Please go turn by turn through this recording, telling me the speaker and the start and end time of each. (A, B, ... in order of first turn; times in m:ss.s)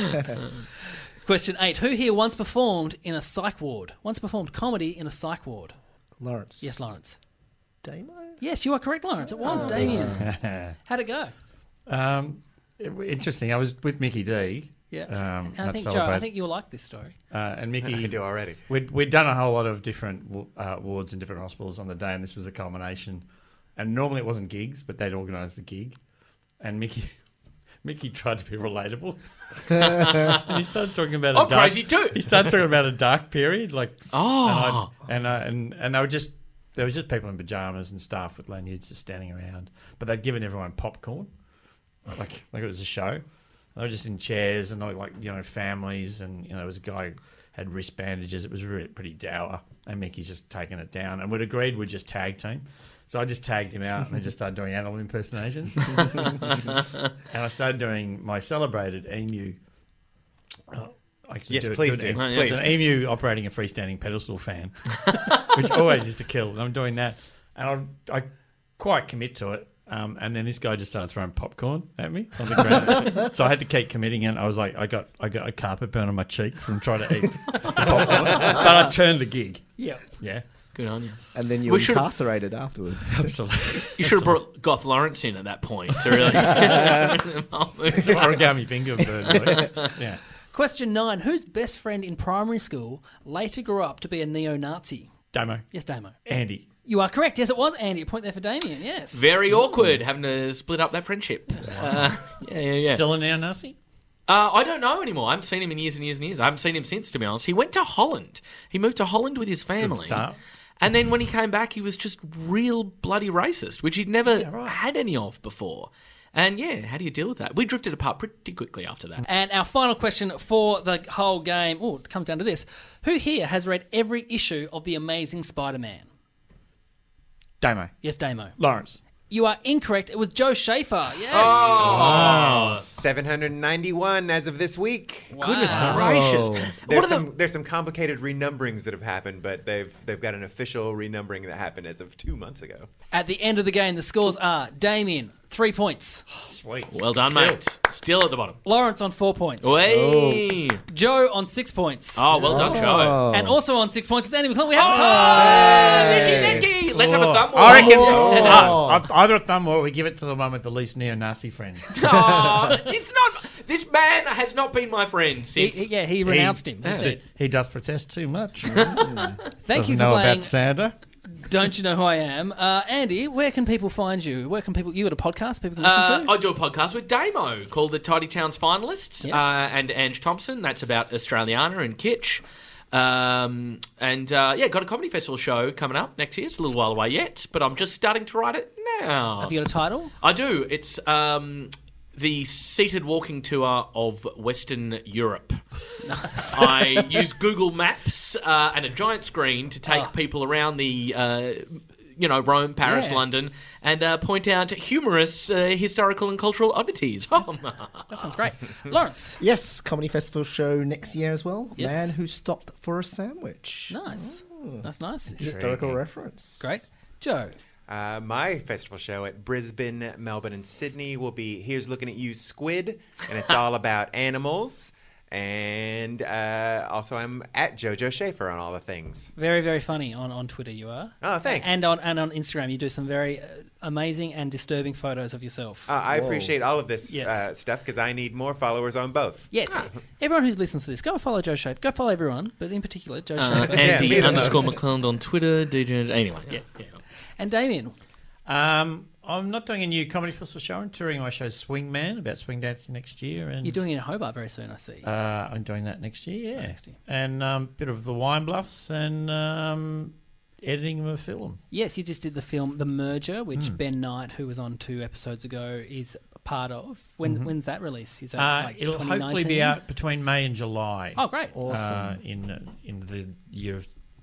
0:01.2-0:05.8 A
0:06.2-0:06.9 B
0:06.6-0:07.2 A
0:07.8-0:08.4 B
0:08.4-0:10.2 A
0:09.4-0:10.3 B
0:10.2-0:10.8 C
0:10.8-0:11.3 A
0:11.9-0:16.3 C
0:14.9-0:17.1 A
0:17.3-0:23.2 C
0:17.8-0:18.6 D
0:23.8-0:26.0 C
0:26.6-0:27.1 C
0:27.8-0:41.3 C
0:29.8-0:30.4 E
0:31.3-0:32.2 E
0:34.1-0:34.9 E
0:42.1-0:43.2 C
0:43.7-0:56.6 C
0:57.3-0:59.6 C
1:00.7-1:20.4 C
1:01.5-1:02.9 D
1:02.2-1:02.6 E
1:17.5-1:18.1 A
1:19.8-1:20.0 A
1:20.7-1:22.1 E
1:21.3-1:23.3 B
1:23.1-1:24.4 C
1:24.0-1:28.5 E
1:26.5-1:27.1 B
1:27.9-1:30.2 C
1:29.6-1:29.9 E
1:30.5-1:35.1 A
1:35.3-1:35.6 C
1:35.7-1:36.2 A
1:36.2-1:36.6 C
1:36.8-1:39.3 A
1:39.1-1:43.0 E
1:41.7-1:42.0 C
1:42.8-1:43.8 C
1:44.3-1:50.3 E
1:49.8-1:50.4 C
1:50.8-1:59.2 E
1:54.2-1:54.8 C
1:59.3-2:06.1 A
2:07.6-2:07.9 C
2:08.0-2:08.6 A
2:08.6-2:09.0 C
2:09.3-2:11.9 A
2:11.3-2:12.8 E
2:11.4-2:15.4 D
2:12.0-2:12.5 B
2:12.0-2:12.8 C
2:15.3-2:16.0 A
2:15.4-2:17.3 E
2:15.8-2:16.7 B
2:16.8-2:22.9 D
2:23.1-2:26.2 A
2:26.3-2:27.6 C
2:26.9-2:28.6 E
2:28.6-2:29.8 A
2:29.6-2:30.8 E
2:29.8-2:30.6 B
2:30.9-2:36.0 A
2:32.2-2:33.2 E
2:32.4-2:33.6 B
2:34.7-2:38.8 E
2:35.1-2:36.7 B
2:36.9-2:42.2 C
2:37.7-2:39.0 B
2:37.9-2:38.8 D
2:41.9-2:45.9 E
2:45.6-2:47.2 A
2:46.2-2:49.1 C
2:46.8-2:47.1 E
2:48.6-2:49.4 B
2:49.6-2:50.5 A
2:49.7-2:50.9 C
2:51.4-2:56.3 A
2:55.8-3:09.6 E
2:59.2-2:59.5 A
3:09.4-3:10.1 A
3:10.2-3:15.8 E
3:16.0-3:17.1 A
3:16.5-3:28.3 E
3:19.8-3:20.1 A
3:28.1-3:29.4 A
3:29.4-3:36.7 B
3:31.8-3:32.1 A
3:33.9-3:35.5 A
3:35.4-3:36.0 C
3:36.6-3:37.5 A
3:37.9-3:49.3 D
3:49.4-3:55.9 A
3:51.2-3:51.8 D
3:55.9-3:59.5 D
3:56.0-3:56.5 B
3:57.1-3:57.4 A
3:59.5-4:04.8 A
4:03.4-4:07.0 E
4:03.8-4:04.8 D
4:07.4-4:07.9 A
4:08.4-4:13.8 C
4:13.6-4:15.1 A
4:15.0-4:21.6 C
4:16.6-4:17.0 A
4:21.7-4:29.8 A
4:27.2-4:27.5 C
4:28.3-4:33.9 C
4:31.2-4:31.5 A
4:31.5-4:32.2 B